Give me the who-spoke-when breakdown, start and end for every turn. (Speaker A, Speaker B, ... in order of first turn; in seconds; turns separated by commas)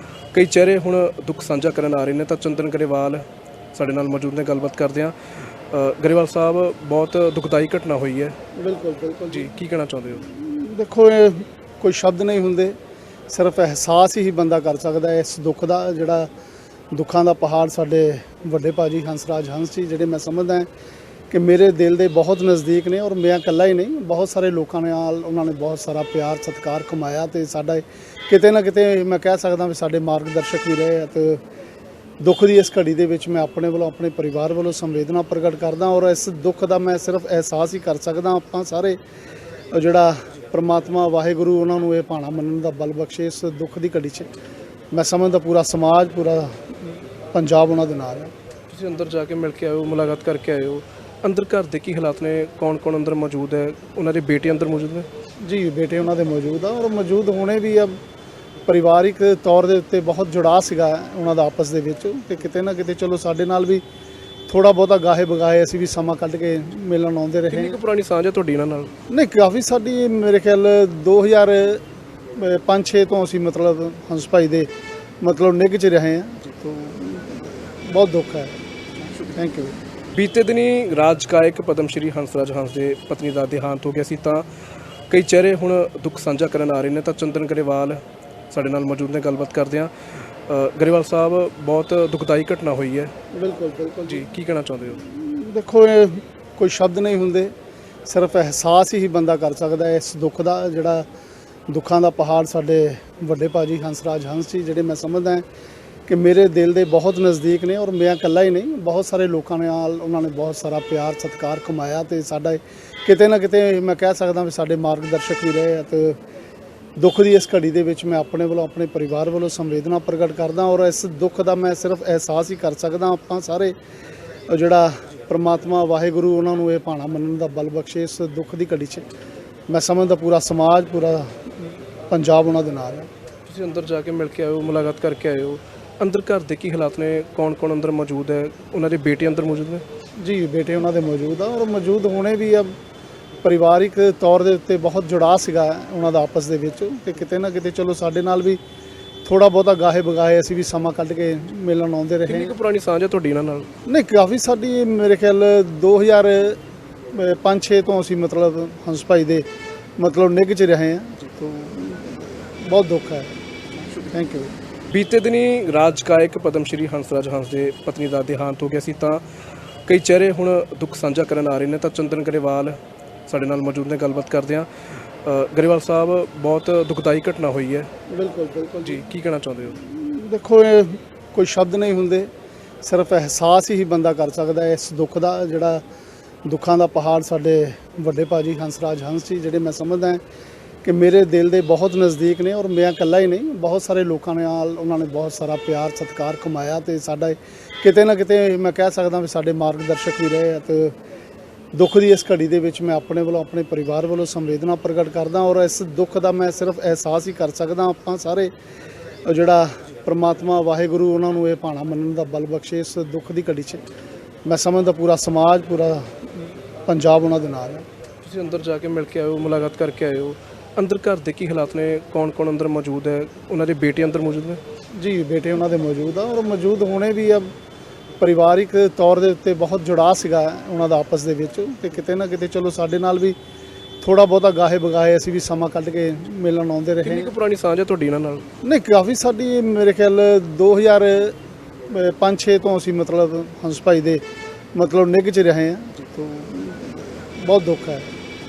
Speaker A: 0.3-8.3, Speaker B: 8.5-9.5, Speaker A: 9.3-10.2, Speaker B: 10.2-12.8, Speaker B: 13.3-16.3, Speaker B: 16.9-20.7, Speaker B: 21.3-31.4, Speaker B: 32.2-39.0, Speaker B: 39.7-44.3, Speaker B: 44.9-48.3, Speaker A: 48.7-55.1, Speaker B: 55.4-58.0, Speaker B: 58.6-63.8, Speaker B: 64.5-67.8, Speaker A: 67.5-68.9, Speaker B: 69.1-74.7, Speaker B: 75.2-78.6, Speaker B: 79.3-79.8, Speaker A: 80.1-84.5, Speaker A: 85.1-93.1, Speaker B: 93.3-94.2, Speaker A: 94.1-95.0, Speaker B: 95.0-97.5, Speaker B: 98.0-101.1, Speaker B: 101.7-105.4, Speaker B: 106.1-116.2, Speaker B: 117.0-123.7, Speaker B: 124.5-129.1, Speaker B: 129.7-133.1, Speaker A: 133.4-139.8, Speaker B: 140.2-142.7, Speaker B: 143.4-148.6, Speaker B: 149.2-152.6, Speaker A: 152.3-153.7, Speaker B: 153.9-156.6, Speaker B: 157.1-159.4, Speaker B: 160.0-163.3, Speaker B: 164.1-164.5, Speaker A: 164.9-169.2, Speaker A: 169.8-177.9, Speaker B: 178.1-179.0, Speaker A: 178.8-179.8, Speaker B: 179.8-182.3, Speaker B: 182.8-185.8, Speaker B: 186.4-190.2, Speaker B: 190.8-200.9, Speaker B: 201.7-208.5, Speaker B: 209.2-213.8, Speaker B: 214.4-217.8, Speaker A: 218.2-224.6, Speaker B: 224.9-227.5, Speaker B: 228.2-233.3, Speaker B: 234.0-237.3, Speaker A: 237.0-238.4, Speaker B: 238.6-241.3, Speaker B: 241.9-244.2, Speaker B: 244.7-248.1